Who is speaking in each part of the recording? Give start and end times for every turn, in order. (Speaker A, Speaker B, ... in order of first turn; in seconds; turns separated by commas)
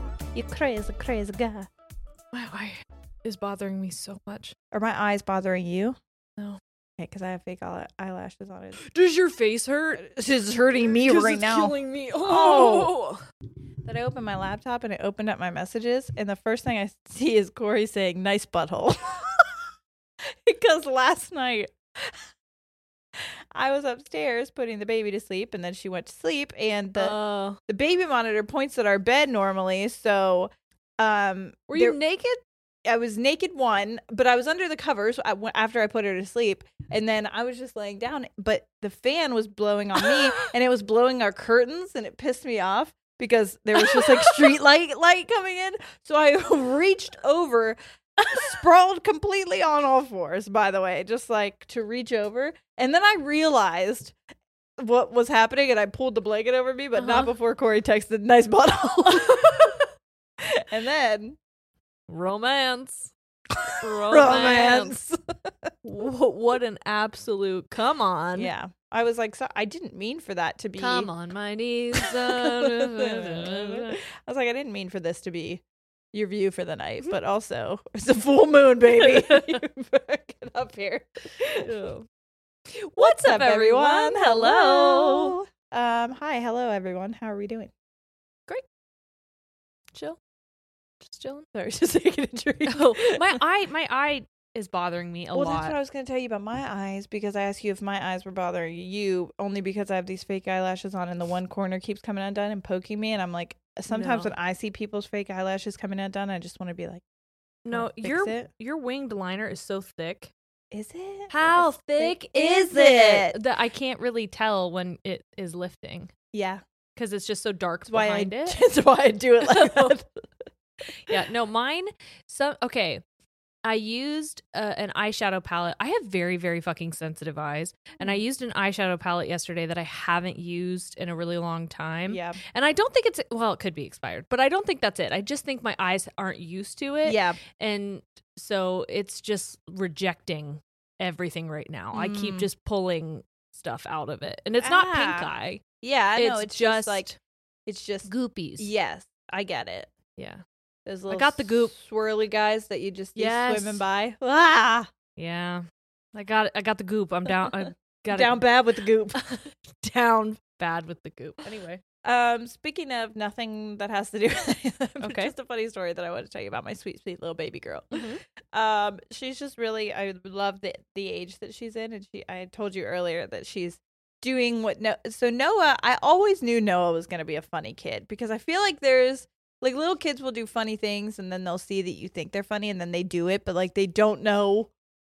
Speaker A: 0.3-1.7, Speaker B: 2.3-4.5, Speaker A: 4.7-6.0, Speaker A: 7.0-8.8, Speaker B: 8.8-10.0, Speaker A: 10.0-12.9, Speaker B: 11.0-13.2, Speaker A: 13.8-19.5, Speaker A: 20.4-22.2, Speaker A: 23.5-27.1, Speaker B: 27.0-27.6, Speaker A: 27.7-32.0, Speaker B: 31.7-32.4, Speaker A: 32.9-54.1, Speaker B: 43.7-44.5, Speaker A: 54.8-59.8, Speaker B: 57.0-57.3, Speaker A: 60.4-61.4, Speaker B: 62.1-63.1, Speaker A: 63.6-65.7, Speaker B: 63.8-65.0, Speaker B: 65.8-68.5, Speaker A: 68.3-71.1, Speaker B: 70.8-74.0, Speaker A: 72.0-81.7, Speaker B: 79.0-79.6, Speaker B: 81.6-82.0, Speaker A: 82.9-87.7, Speaker B: 83.0-85.3, Speaker B: 89.9-90.2, Speaker B: 91.0-91.5, Speaker A: 91.5-93.4, Speaker B: 92.7-95.7, Speaker A: 95.3-107.0, Speaker B: 103.9-104.3, Speaker B: 107.6-110.3, Speaker A: 107.7-108.5, Speaker A: 110.7-113.3, Speaker B: 111.3-116.1, Speaker A: 116.3-116.6, Speaker B: 117.0-118.6, Speaker A: 117.9-120.1, Speaker B: 119.5-119.9, Speaker B: 121.1-123.0, Speaker B: 123.6-145.6, Speaker A: 132.1-132.4, Speaker A: 137.0-137.4, Speaker A: 141.9-142.5, Speaker A: 144.6-147.1, Speaker B: 146.2-147.2, Speaker A: 147.7-149.9, Speaker B: 148.0-148.7, Speaker B: 150.2-150.4, Speaker A: 150.8-154.9, Speaker B: 151.1-151.7, Speaker B: 153.2-153.8, Speaker B: 155.2-155.6, Speaker B: 156.1-158.4, Speaker A: 158.1-159.2, Speaker B: 159.1-161.8, Speaker A: 162.0-184.7, Speaker B: 165.0-165.3, Speaker B: 167.9-168.2